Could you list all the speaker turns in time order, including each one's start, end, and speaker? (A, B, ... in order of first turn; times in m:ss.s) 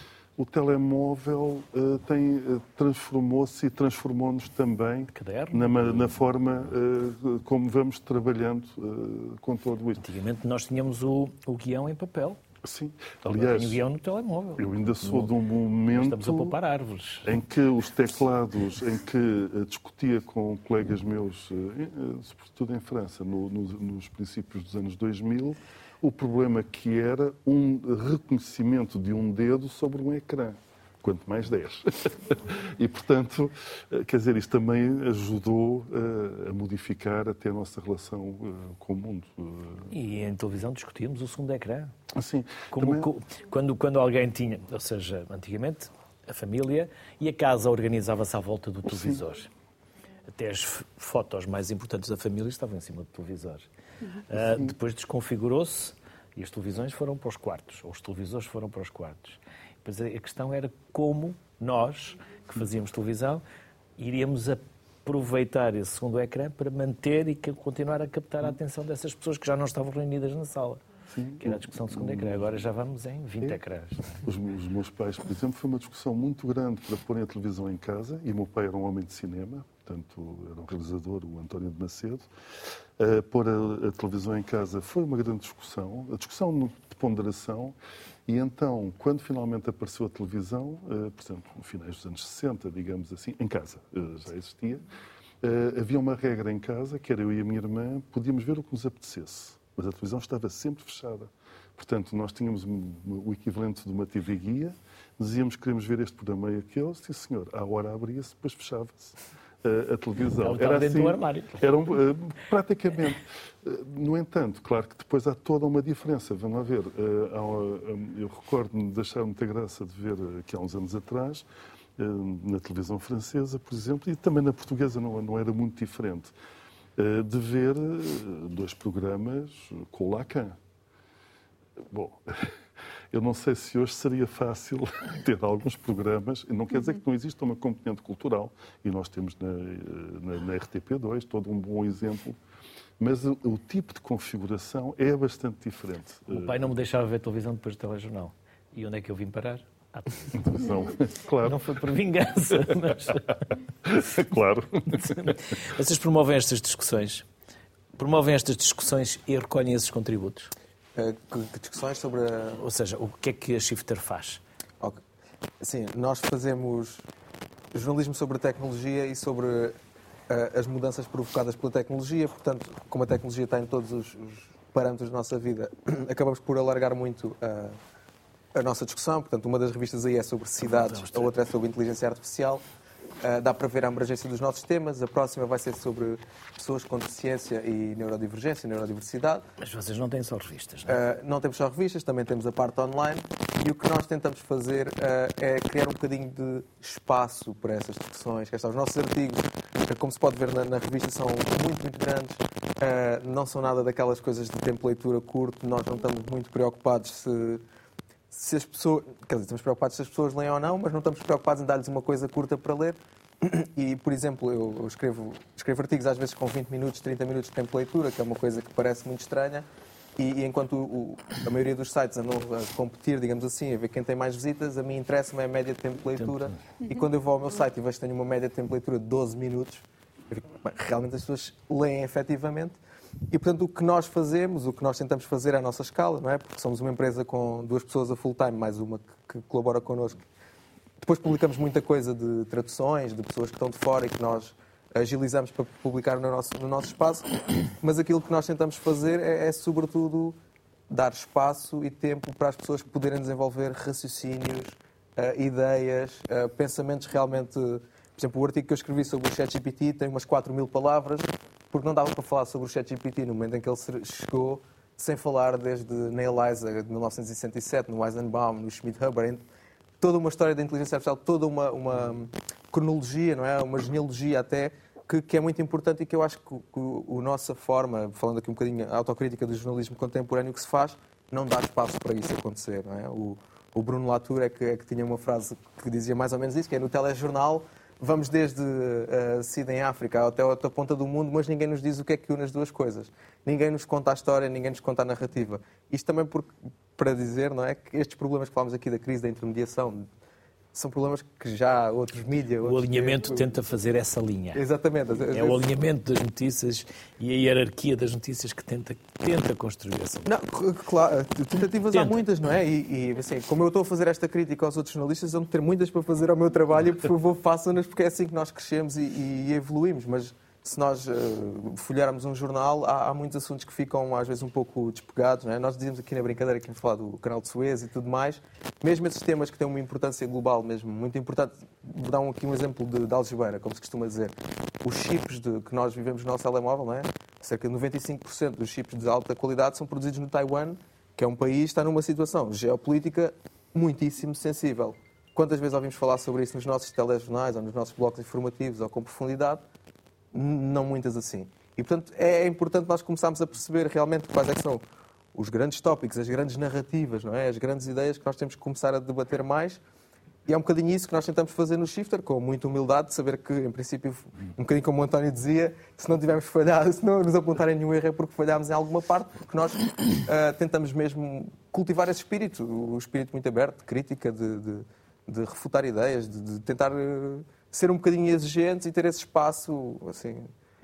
0:00.4-0:10.0 A
0:05.2-0:06.2 B
0:10.0-0:12.4 B
0:12.6-0:13.8 A
0:13.4-0:15.3 B
0:14.6-0:16.6 A
0:15.9-0:17.3 B
0:17.2-0:39.9 A
0:39.9-0:41.9 B
0:42.1-0:43.1 A
0:42.7-0:49.5 B
0:48.9-0:49.2 A
0:50.3-0:53.7 B
0:54.3-1:03.4 B
1:04.0-1:10.8 B
1:11.1-1:12.6 A
1:11.4-1:14.2 B
1:14.2-1:22.3 A
1:23.0-1:34.9 A
1:35.4-2:01.5 A
1:50.4-1:51.6 B
2:02.0-2:06.3 A
2:07.0-2:10.6 A
2:11.8-2:12.5 A
2:13.1-2:22.4 A
2:23.0-2:26.7 A
2:26.3-2:30.4 B
2:30.3-2:31.8 A
2:31.4-2:33.5 B
2:33.8-2:35.6 A
2:34.9-2:37.3 B
2:38.0-2:40.5 B
2:41.0-2:42.6 C
2:42.6-2:44.4 B
2:45.6-2:47.0 C
2:47.7-2:49.8 C
2:50.3-2:57.8 C
2:58.5-3:02.6 C
3:00.7-3:01.3 B
3:03.2-3:09.4 C
3:09.6-3:11.0 B
3:10.9-3:27.6 C
3:28.3-3:39.6 C
3:40.2-3:52.8 C
3:46.2-3:46.5 B
3:53.3-4:00.2 C
4:01.0-4:10.4 C
4:10.9-4:29.4 C
4:30.0-5:00.1 C
5:00.7-5:03.5 C
5:02.6-5:04.6 B
5:04.5-5:05.7 C
5:05.3-5:10.3 B
5:10.2-5:49.6 C
5:50.3-5:54.8 C
5:55.3-5:59.8 C
6:00.5-6:20.5 C